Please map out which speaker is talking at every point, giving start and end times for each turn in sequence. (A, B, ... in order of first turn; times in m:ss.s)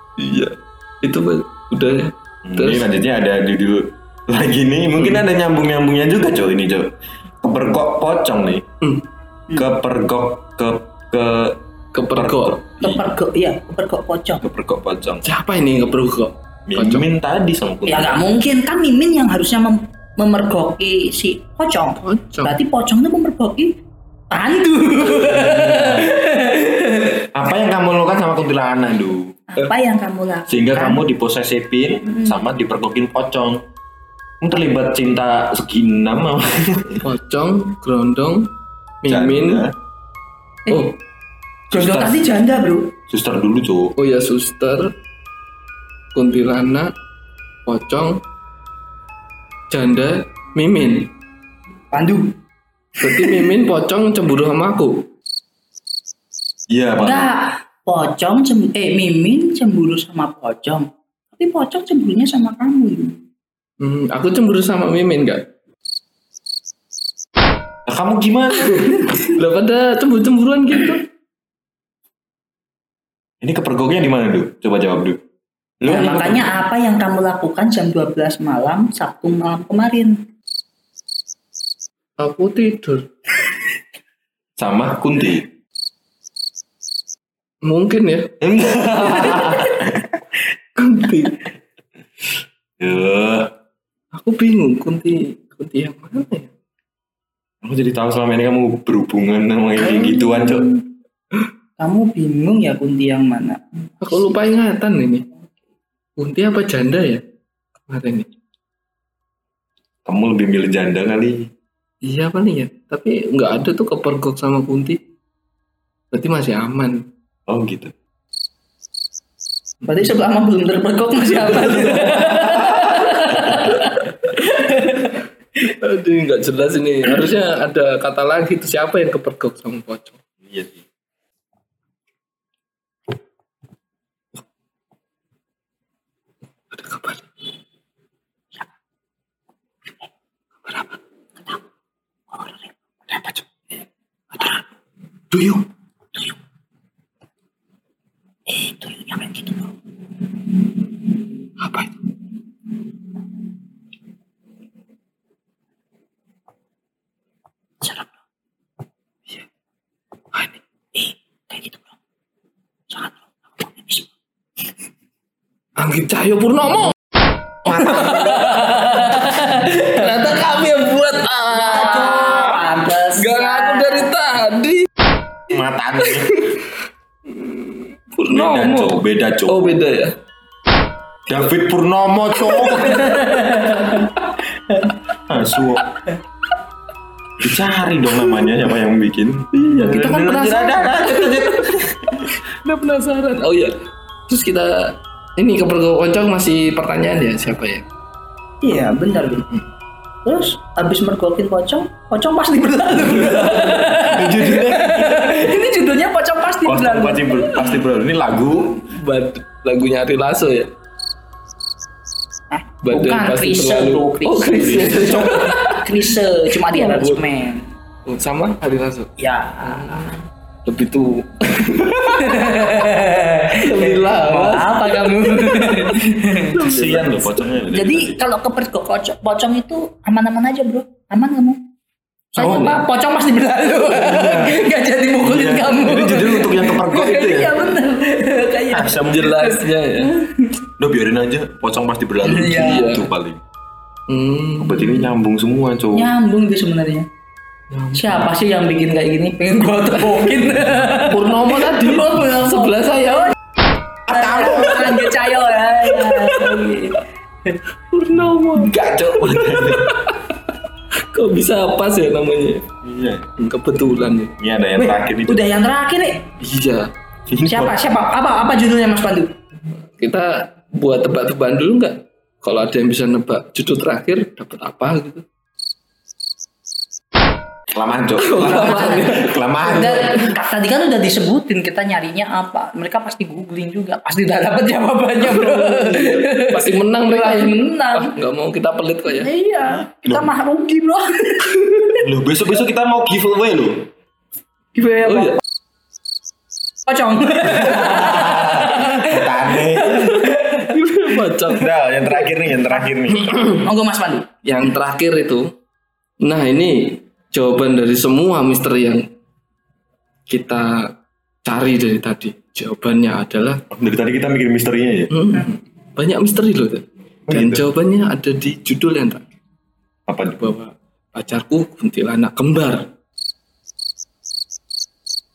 0:00.2-0:02.9 A
0:02.4-0:08.6 B
0:09.6-0:11.6 B
0:11.9-0:12.6 A
0:12.1-0:13.0 B
0:12.8-0:14.4 C
0:14.4-0:15.2 B
0:15.2-0:17.1 A
0:16.7-0:18.2 B
0:17.9-0:23.8 C
0:22.0-0:22.6 A
0:24.3-0:27.2 C
0:25.2-0:26.1 B
0:27.3-0:29.4 B
0:29.5-0:31.0 C
0:30.5-0:33.6 B
0:34.4-0:37.1 B
0:37.0-0:38.5 A
0:39.0-0:39.6 A
0:39.0-0:39.7 B
0:40.7-0:40.9 A
0:41.7-0:42.3 B
0:41.7-0:42.9 C
0:43.1-0:44.0 B
0:44.0-0:44.9 A
0:46.1-0:46.9 A
0:47.7-0:48.2 A
0:49.7-0:51.1 A
0:51.9-0:52.4 C
0:53.0-0:55.1 A
0:56.7-0:57.4 B
0:57.0-1:03.2 C
1:03.8-1:05.4 A
1:07.9-1:09.0 B
1:08.7-1:11.1 A
1:13.4-1:15.2 B
1:15.8-1:16.5 B
1:15.9-1:20.2 C
1:22.2-1:23.1 A
1:24.6-1:25.5 B
1:27.6-1:28.3 A
1:28.4-1:30.1 B
1:30.8-1:31.4 A
1:32.8-1:33.5 B
1:34.1-1:36.5 A
1:37.6-1:40.7 B
1:39.8-1:40.8 C
1:41.8-1:44.3 C
1:44.0-1:45.3 A
1:46.2-1:47.2 A
1:47.9-1:48.3 A
1:50.0-1:51.5 B
1:52.0-1:55.0 A
1:56.1-1:57.1 A
1:57.5-1:57.9 B
1:59.9-2:05.2 C
2:05.6-2:10.2 A
2:10.4-2:10.8 B
2:16.7-2:17.2 A
2:20.7-2:21.0 A
2:25.3-2:25.7 A
2:28.5-2:29.7 C
2:31.6-2:31.9 A
2:41.0-2:41.8 C
2:42.9-2:44.0 C
2:45.8-2:47.0 A
2:47.7-2:49.4 C
2:47.8-2:52.6 A
2:51.5-2:54.1 C
2:53.2-2:54.9 A
2:55.5-2:56.4 B
2:56.0-2:56.6 A
2:57.3-3:00.2 A
2:58.3-2:59.8 B
3:01.3-3:03.2 B
3:02.8-3:05.0 C
3:03.5-3:04.1 A
3:05.3-3:05.9 B
3:07.4-3:12.3 B
3:09.5-3:13.8 A
3:14.3-3:17.8 A
3:18.6-3:19.5 C
3:20.2-3:27.5 C
3:23.3-3:23.9 A
3:24.0-3:25.5 B
3:26.6-3:28.9 B
3:28.9-3:30.7 A
3:32.5-3:37.7 C
3:32.8-3:36.2 A
3:34.9-3:35.5 B
3:36.7-3:37.3 A
3:38.1-3:42.8 A
3:39.2-3:40.2 C
3:42.0-3:46.6 C
3:43.5-3:47.5 A
3:46.6-3:48.2 B
3:47.7-3:51.6 C
3:52.3-4:00.5 C
3:52.4-3:52.8 A
3:54.0-3:54.6 B
3:55.2-3:57.8 B
3:58.7-3:59.3 B
3:59.1-4:00.2 A
4:00.8-4:03.4 B
4:02.2-4:02.9 C
4:02.5-4:03.1 A
4:04.1-4:05.1 A
4:04.6-4:06.1 B
4:05.9-4:07.1 C
4:07.7-4:08.3 A
4:07.9-4:11.5 C
4:10.9-4:13.4 A
4:14.1-4:15.0 B
4:14.1-4:17.6 C
4:14.8-4:15.2 A
4:15.8-4:16.9 A
4:17.9-4:20.5 A
4:18.7-4:20.0 B
4:21.1-4:22.7 A
4:22.8-4:23.3 B
4:23.4-4:24.3 A
4:24.4-4:25.5 B
4:24.8-4:26.2 C
4:26.4-4:26.9 A
4:27.3-4:27.8 B
4:27.5-4:29.3 C
4:30.0-4:35.2 A
4:37.7-4:40.3 B
4:38.2-4:39.4 A
4:38.4-4:48.2 C
4:45.3-4:49.3 A
4:49.1-4:52.0 C
4:52.0-4:53.9 B
4:54.8-4:55.4 C
4:55.1-4:55.4 A
4:56.9-5:00.8 C
4:57.6-5:00.1 B
5:00.0-5:01.7 A
5:01.5-5:03.4 B
5:03.6-5:04.3 C
5:04.4-5:05.5 A
5:06.2-5:09.1 A
5:10.3-5:10.9 A
5:11.4-5:13.6 A
5:13.7-5:15.1 B
5:15.1-5:19.2 A
5:17.3-5:17.6 B
5:20.1-5:20.4 B
5:20.4-5:22.9 A